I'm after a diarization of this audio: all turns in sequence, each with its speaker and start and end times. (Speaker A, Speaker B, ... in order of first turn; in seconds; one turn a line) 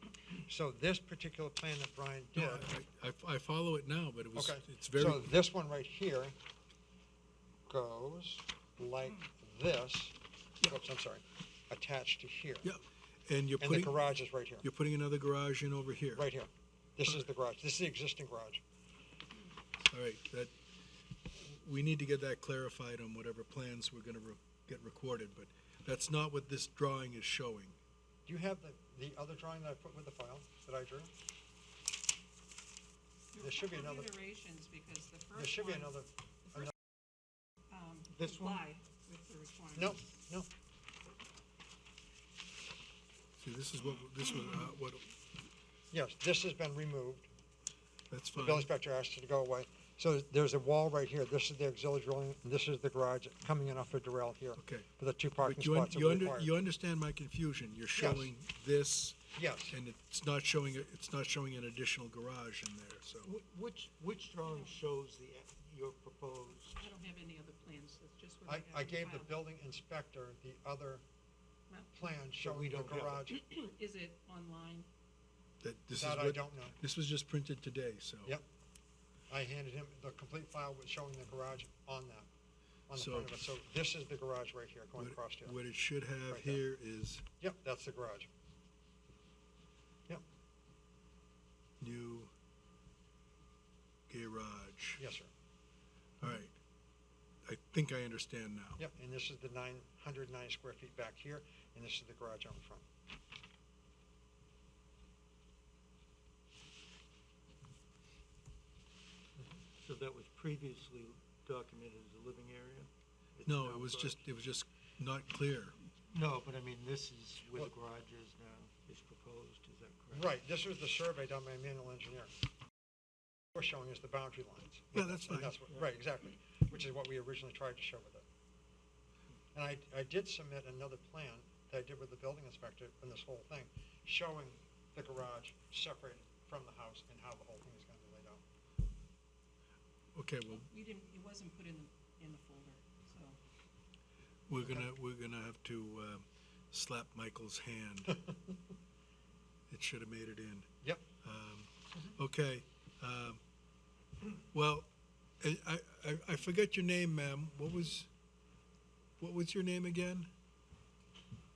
Speaker A: 0.3-2.7
Speaker B: 2.4-5.3
Speaker A: 4.3-6.3
Speaker A: 7.7-12.7
Speaker B: 12.6-14.0
Speaker A: 13.6-14.7
Speaker B: 14.6-16.2
Speaker A: 16.1-18.6
Speaker B: 19.9-20.5
Speaker B: 21.4-27.8
Speaker A: 28.3-31.1
Speaker C: 33.3-35.9
Speaker A: 33.4-34.1
Speaker A: 35.4-36.7
Speaker C: 37.7-40.0
Speaker D: 38.1-38.6
Speaker A: 39.8-40.5
Speaker B: 43.4-45.2
Speaker A: 45.9-47.3
Speaker B: 48.1-48.7
Speaker A: 48.4-56.5
Speaker B: 54.6-54.9
Speaker B: 55.4-63.3
Speaker A: 58.0-58.3
Speaker A: 59.4-59.8
Speaker D: 63.2-66.9
Speaker C: 64.4-64.8
Speaker C: 66.8-69.3
Speaker A: 68.5-71.0
Speaker C: 71.7-72.0
Speaker A: 71.9-73.4
Speaker D: 72.4-73.2
Speaker C: 73.3-74.9
Speaker B: 75.6-78.4
Speaker A: 76.0-76.8
Speaker A: 79.3-82.3
Speaker A: 82.9-85.6
Speaker B: 83.0-83.3
Speaker B: 85.0-87.2
Speaker A: 86.3-86.6
Speaker A: 87.4-88.3
Speaker B: 91.8-92.3
Speaker B: 94.1-95.0
Speaker A: 95.0-95.3
Speaker B: 96.2-96.6
Speaker B: 97.5-98.8
Speaker A: 98.8-102.8
Speaker D: 109.8-114.2
Speaker B: 113.5-115.8
Speaker D: 116.1-120.3
Speaker A: 120.1-122.3
Speaker A: 123.5-128.2
Speaker B: 125.0-125.6
Speaker A: 129.5-138.4
Speaker B: 140.2-140.7
Speaker C: 140.6-143.4
Speaker B: 144.5-148.1
Speaker A: 148.1-148.4
Speaker B: 149.7-150.7
Speaker B: 151.2-153.4
Speaker B: 154.5-154.9
Speaker B: 155.4-158.1
Speaker B: 159.2-160.3